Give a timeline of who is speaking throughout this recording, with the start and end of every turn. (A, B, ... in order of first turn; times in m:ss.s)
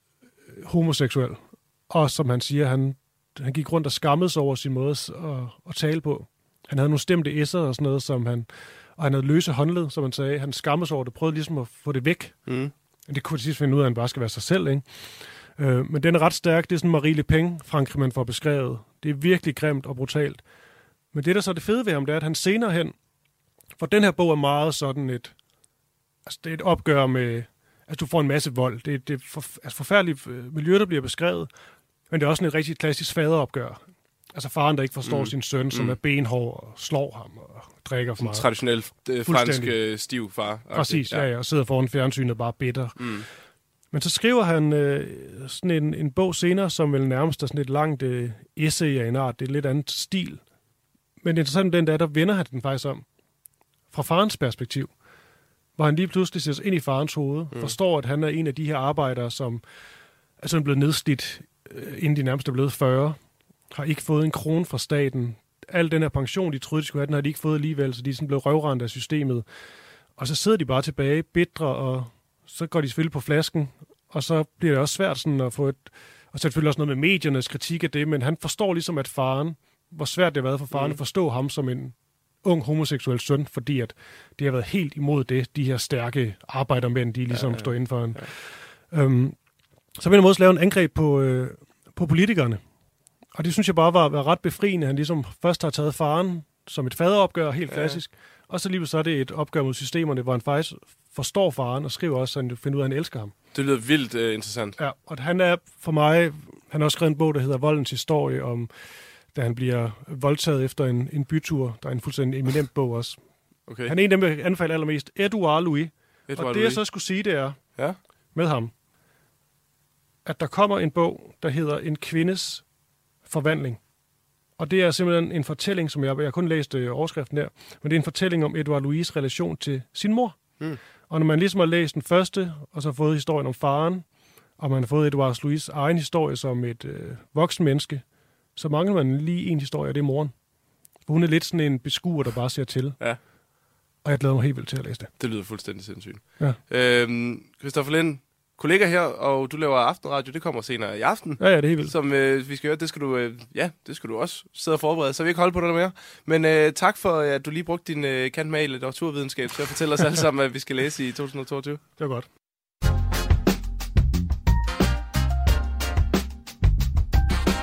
0:00.6-0:20.5 A
0:12.5-0:12.7 B
0:21.1-0:23.0 A
0:23.8-0:25.4 A
0:26.3-0:31.6 A
0:32.1-0:50.5 A
0:35.0-0:36.0 B
0:38.2-0:41.3 B
0:43.0-0:43.3 B
0:51.2-0:53.2 A
0:53.9-0:55.1 A
0:55.8-1:09.5 A
0:57.5-0:57.8 B
1:10.1-1:32.7 A
1:20.7-1:21.0 B
1:27.3-1:28.3 B
1:33.3-1:43.4 A
1:37.7-1:38.0 B
1:43.5-1:44.8 B
1:44.8-1:58.7 A
1:53.7-1:53.9 B
1:56.3-1:56.9 B
2:00.2-2:02.7 A
2:03.2-2:03.9 A
2:04.6-2:20.4 A
2:21.0-2:23.2 A
2:24.0-2:25.1 A
2:25.2-2:42.0 B
2:31.4-2:31.9 A
2:42.0-2:42.3 A